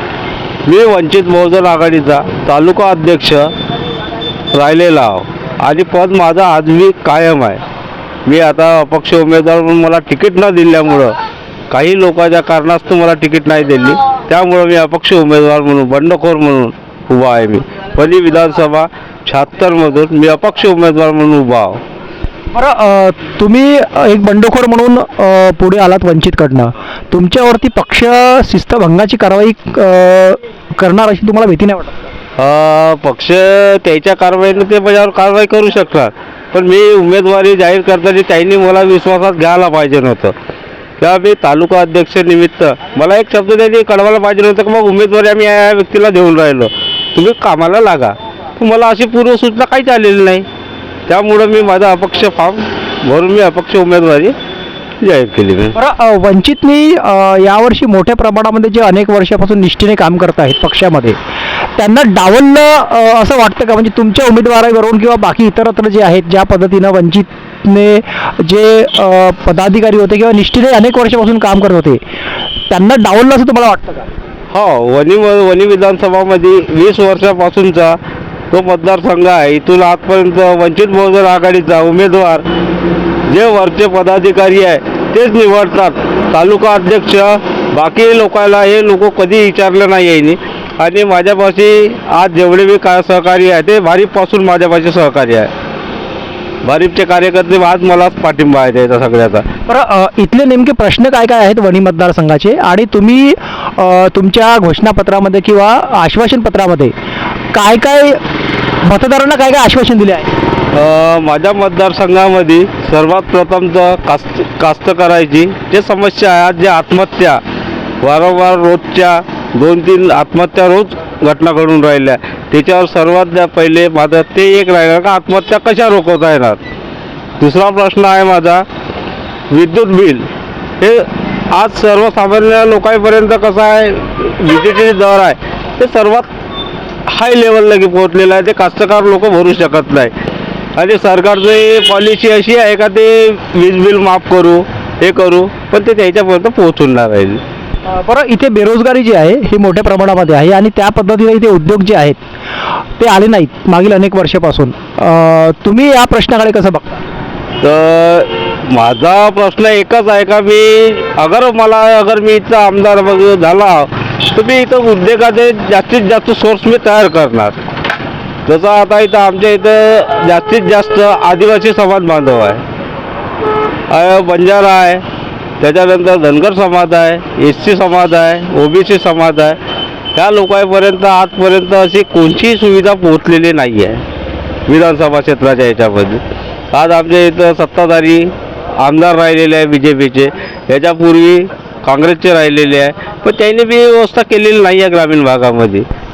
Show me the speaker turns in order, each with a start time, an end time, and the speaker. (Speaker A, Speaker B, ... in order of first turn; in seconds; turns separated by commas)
Speaker A: 0.7-3.5, Speaker A: 4.5-7.6, Speaker A: 8.2-11.1, Speaker A: 11.7-21.8, Speaker B: 22.5-32.1, Speaker A: 32.4-40.3, Speaker A: 41.0-50.5, Speaker A: 51.1-54.3, Speaker A: 55.0-55.8, Speaker B: 55.7-61.2, Speaker B: 61.8-72.0, Speaker B: 72.7-74.1, Speaker A: 74.5-78.0, Speaker A: 78.5-82.4, Speaker A: 83.3-95.5, Speaker A: 96.6-99.5, Speaker B: 99.7-106.9, Speaker B: 107.5-108.2, Speaker B: 108.8-110.3, Speaker A: 110.7-117.4, Speaker A: 118.0-126.6, Speaker A: 127.4-128.6, Speaker A: 129.5-130.3, Speaker A: 130.8-136.3, Speaker A: 137.1-140.1, Speaker A: 140.8-147.4, Speaker B: 147.9-152.2, Speaker B: 153.0-157.0, Speaker A: 157.6-167.6, Speaker A: 168.4-172.6, Speaker A: 173.9-175.0, Speaker A: 175.6-179.6, Speaker A: 180.1-184.0, Speaker A: 184.7-186.2, Speaker A: 186.7-195.9